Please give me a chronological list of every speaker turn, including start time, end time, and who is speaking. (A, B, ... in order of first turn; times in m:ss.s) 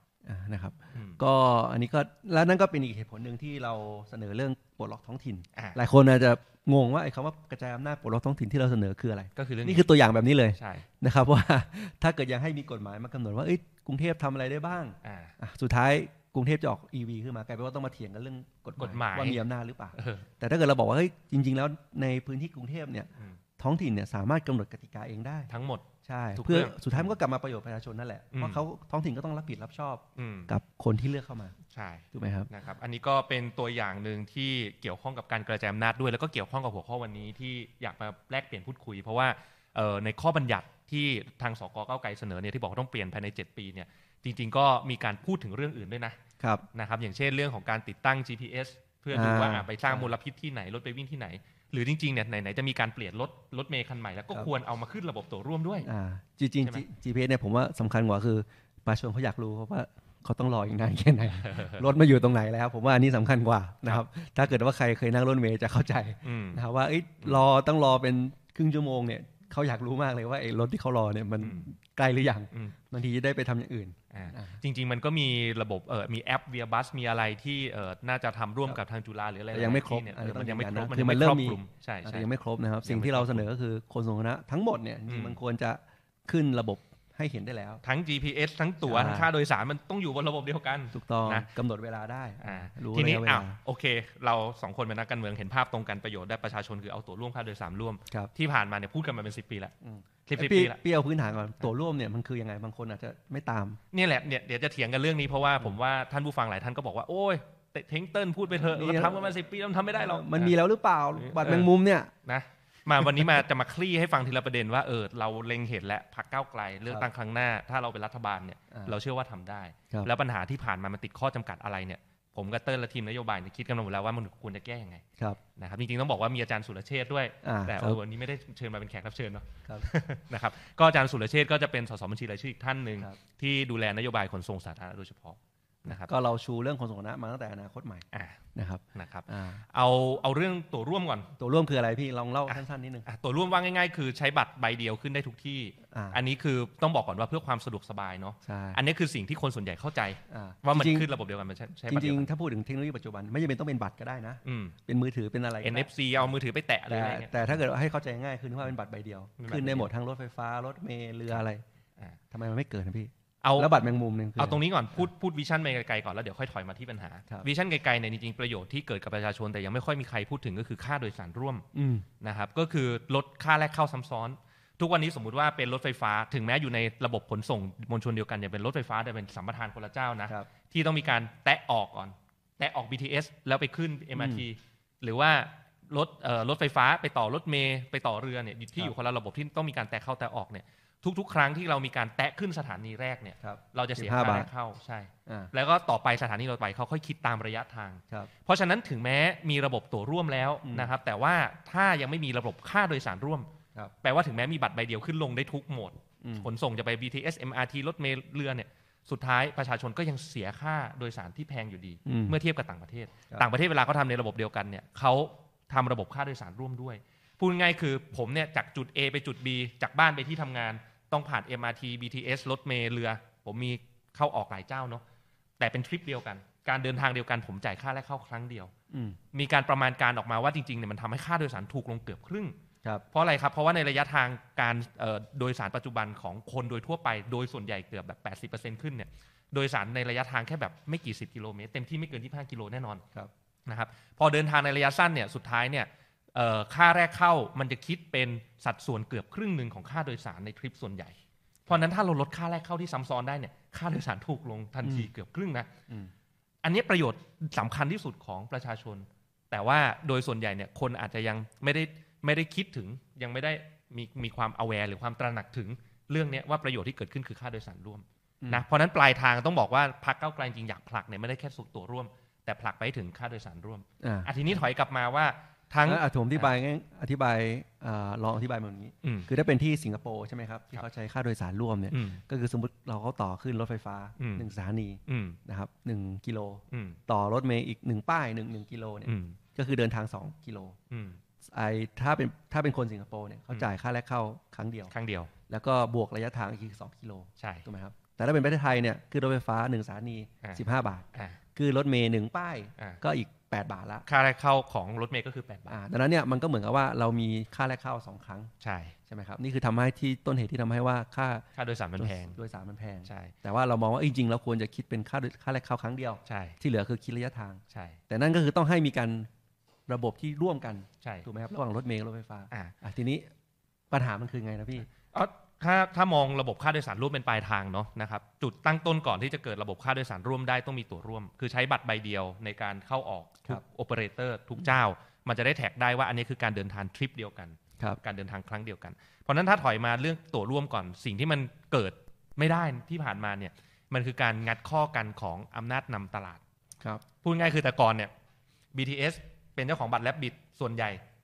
0:00.2-0:25.5 A
0:00.9-0:01.2 B
0:09.4-0:09.9 B
0:10.6-0:10.9 B
0:15.0-0:15.3 B
0:18.8-0:19.4 B
0:19.9-0:20.3 B
0:25.5-0:27.2 B
0:26.0-0:31.5 A
0:28.3-0:28.6 B
0:30.2-0:30.5 B
0:31.7-0:46.2 B
0:32.1-0:32.5 A
0:46.4-0:46.6 A
0:46.7-0:55.9 B
0:49.1-0:50.1 A
0:55.8-1:14.6 A
1:01.4-1:01.8 B
1:06.2-1:06.6 B
1:11.4-1:11.7 B
1:12.5-1:12.8 B
1:14.1-1:22.3 B
1:19.5-1:27.8 A
1:22.8-1:23.5 B
1:25.1-1:25.4 B
1:27.8-1:31.5 B
1:28.8-1:29.3 A
1:30.9-1:33.6 A
1:32.4-1:39.7 B
1:39.8-1:43.8 A
1:40.2-1:40.8 B
1:43.9-1:50.6 B
1:48.6-1:49.2 A
1:50.0-1:52.1 A
1:51.2-1:51.7 B
1:52.2-2:05.0 B
1:58.7-1:59.0 A
2:05.6-2:16.1 B
2:07.4-2:08.0 A
2:15.9-2:19.6 A
2:18.1-2:18.4 B
2:18.9-2:21.3 B
2:21.4-2:23.0 A
2:22.5-2:32.3 B
2:25.9-2:26.2 A
2:28.4-2:28.8 A
2:30.3-2:31.1 A
2:31.9-2:36.3 A
2:34.4-2:34.8 B
2:35.6-2:37.6 B
2:36.8-2:41.6 A
2:39.4-2:39.9 B
2:42.3-2:45.1 A
2:43.4-2:43.7 B
2:44.4-2:51.6 B
2:51.7-2:52.0 A
2:52.2-3:23.5 B
3:04.2-3:04.4 A
3:13.4-3:14.5 A
3:20.6-3:20.9 A
3:24.0-3:45.0 B
3:26.2-3:26.5 A
3:32.0-3:32.4 A
3:45.6-3:48.7 B
3:48.9-3:49.2 A
3:49.3-3:52.6 B
3:53.1-4:03.0 B
4:03.7-4:11.1 B
4:11.7-4:15.7 B
4:14.8-4:15.1 A
4:16.6-4:36.5 B
4:34.0-4:34.3 A
4:35.8-4:50.8 A
4:39.0-4:39.3 B
4:41.9-4:42.2 B
4:44.2-4:44.4 B
4:45.1-4:45.4 B
4:46.7-4:47.0 B
4:49.0-4:49.4 B
4:50.9-4:51.2 B
4:51.4-4:54.9 A
4:54.9-4:55.3 B
4:55.5-5:04.0 A
4:57.4-4:57.6 B
5:01.1-5:01.4 B
5:04.1-5:05.8 B
5:05.7-5:08.5 A
5:08.6-5:08.9 B
5:09.1-5:11.4 A
5:11.6-5:12.4 B
5:12.0-5:19.3 A
5:13.0-5:13.3 B
5:16.2-5:16.6 B
5:17.7-5:18.0 B
5:19.9-5:23.3 A
5:21.0-5:21.3 B
5:23.9-5:24.9 A
5:25.1-5:46.4 B
5:47.2-5:48.1 B
5:48.7-5:51.0 B